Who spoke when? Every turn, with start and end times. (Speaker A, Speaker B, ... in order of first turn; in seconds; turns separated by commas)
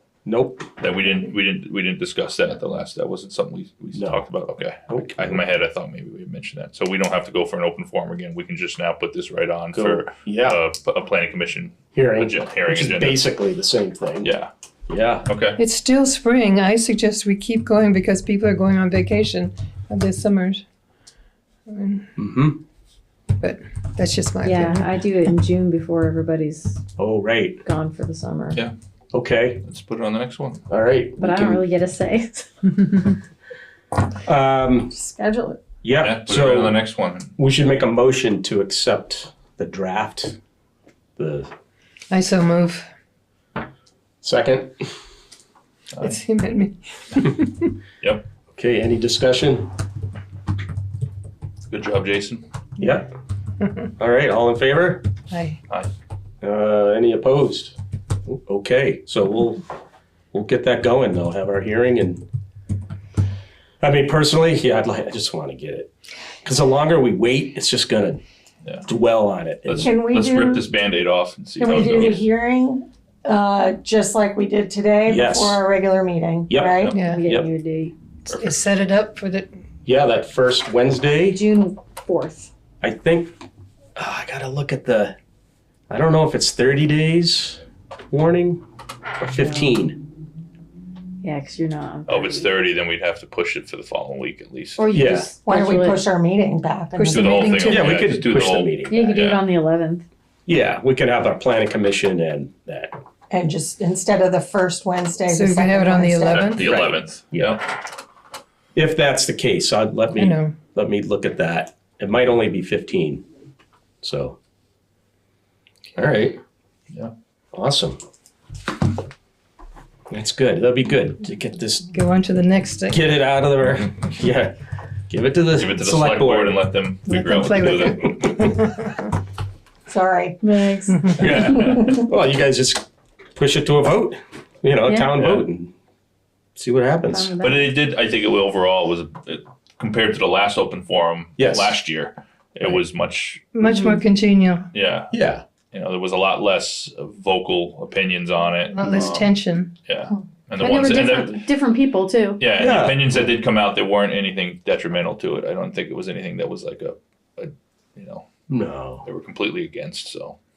Speaker A: 0.2-0.7, Speaker B: 0.8-13.2, Speaker A: 4.0-4.2, Speaker A: 4.9-5.5, Speaker A: 9.7-10.6, Speaker A: 11.9-14.3, Speaker B: 14.2-14.5, Speaker A: 14.9-15.3, Speaker B: 15.2-15.6, Speaker C: 15.6-20.6, Speaker C: 21.7-22.1, Speaker A: 22.2-22.6, Speaker C: 23.4-25.0, Speaker D: 24.4-26.8, Speaker A: 27.0-27.6, Speaker D: 27.6-28.6, Speaker A: 29.1-29.6, Speaker B: 29.6-30.6, Speaker A: 30.7-31.6, Speaker D: 31.2-33.2, Speaker A: 34.2-34.9, Speaker E: 35.0-35.6, Speaker A: 35.8-36.8, Speaker B: 36.0-37.3, Speaker A: 37.4-40.4, Speaker A: 41.2-41.5, Speaker C: 42.1-42.9, Speaker A: 44.2-44.7, Speaker C: 46.0-47.7, Speaker A: 48.5-49.7, Speaker B: 51.7-52.4, Speaker A: 52.8-53.1, Speaker A: 54.0-55.1, Speaker C: 55.3-55.6, Speaker A: 56.4-57.8, Speaker A: 58.3-59.6, Speaker A: 60.3-62.2, Speaker A: 63.8-65.9, Speaker A: 66.4-68.2, Speaker A: 68.9-69.9, Speaker B: 69.7-72.3, Speaker E: 69.8-70.7, Speaker E: 71.6-77.0, Speaker A: 75.1-75.6, Speaker A: 76.5-77.5, Speaker B: 76.7-77.0, Speaker C: 77.0-77.3, Speaker D: 77.0-78.0, Speaker B: 78.3-78.6, Speaker C: 78.3-79.5, Speaker A: 79.9-81.4, Speaker D: 81.3-82.5, Speaker A: 82.8-83.3, Speaker A: 84.0-85.2, Speaker A: 85.9-88.6, Speaker A: 89.2-90.0, Speaker D: 91.2-92.5, Speaker B: 92.1-94.9, Speaker D: 94.8-96.1, Speaker A: 94.9-95.3, Speaker E: 95.5-97.8, Speaker C: 97.0-98.0, Speaker B: 97.1-99.4, Speaker A: 97.6-99.2, Speaker D: 98.9-100.0, Speaker A: 100.5-103.0, Speaker E: 103.3-106.8, Speaker C: 105.3-106.7, Speaker B: 106.2-107.7, Speaker A: 106.6-107.6, Speaker A: 108.8-113.2, Speaker C: 110.2-110.6, Speaker A: 114.0-114.4, Speaker A: 116.0-116.4, Speaker A: 117.5-118.0, Speaker A: 120.1-121.9, Speaker C: 121.9-123.1, Speaker A: 122.9-124.5, Speaker A: 125.1-126.6, Speaker B: 125.6-128.5, Speaker C: 127.0-129.0, Speaker E: 129.9-130.4, Speaker D: 130.4-131.8, Speaker B: 131.2-132.1, Speaker A: 131.6-132.8, Speaker A: 133.4-135.7, Speaker D: 134.9-135.2, Speaker A: 136.6-137.3, Speaker D: 137.1-137.8, Speaker B: 137.4-143.4, Speaker A: 141.4-141.8, Speaker C: 143.5-144.7, Speaker D: 143.6-144.0, Speaker B: 144.7-145.1, Speaker A: 145.1-145.4, Speaker B: 145.7-149.3, Speaker C: 148.7-149.7, Speaker B: 149.9-151.3, Speaker D: 150.6-152.4, Speaker B: 152.4-158.3, Speaker A: 152.6-153.1, Speaker A: 158.5-159.1, Speaker B: 159.1-160.4